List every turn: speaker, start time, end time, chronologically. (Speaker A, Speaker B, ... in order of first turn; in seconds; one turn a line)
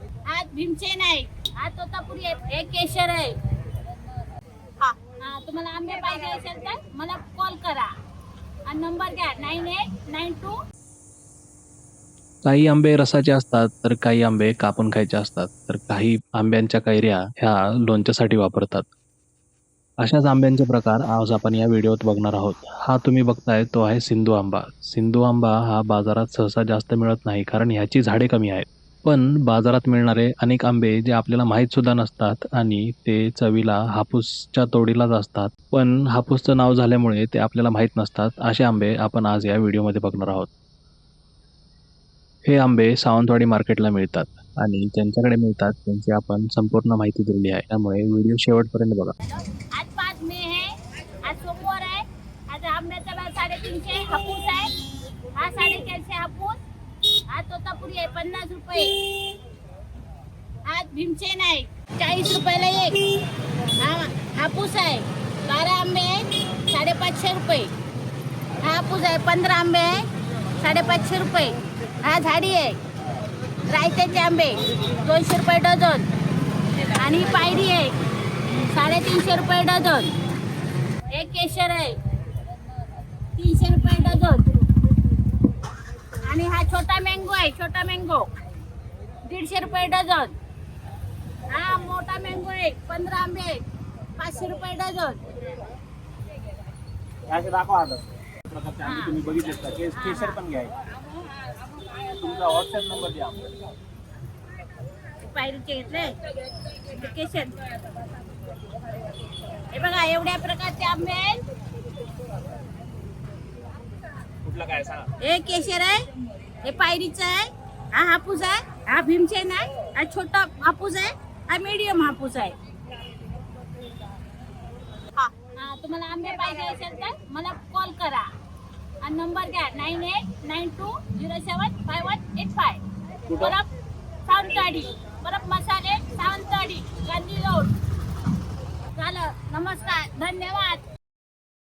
Speaker A: 0.3-3.3
Speaker A: 4.8-7.9
Speaker A: 8.7-10.6
Speaker B: 12.5-18.9
Speaker B: 20.0-40.5
Speaker B: 42.5-49.1
Speaker A: 49.2-50.7
Speaker A: 51.2-54.7
Speaker A: 55.4-56.6
Speaker A: 57.3-59.0
Speaker A: 60.7-63.1
Speaker A: 63.8-67.7
Speaker A: 68.6-70.0
Speaker A: 70.5-72.8
Speaker A: 73.7-76.1
Speaker A: 76.8-78.0
Speaker A: 78.6-80.1
Speaker A: 81.1-82.0
Speaker A: 83.4-84.6
Speaker A: 86.2-88.3
Speaker A: 89.2-90.3
Speaker A: 91.5-93.6
Speaker A: 94.2-95.3
Speaker C: 97.3-100.8
Speaker A: 98.8-99.4
Speaker A: 99.9-100.4
Speaker C: 102.1-103.5
Speaker A: 105.2-106.2
Speaker A: 106.8-107.7
Speaker A: 109.7-111.4
Speaker C: 114.5-115.0
Speaker A: 115.2-116.0
Speaker A: 116.6-122.5
Speaker A: 125.2-128.3
Speaker A: 129.0-133.7
Speaker A: 134.3-137.7
Speaker A: 139.0-140.8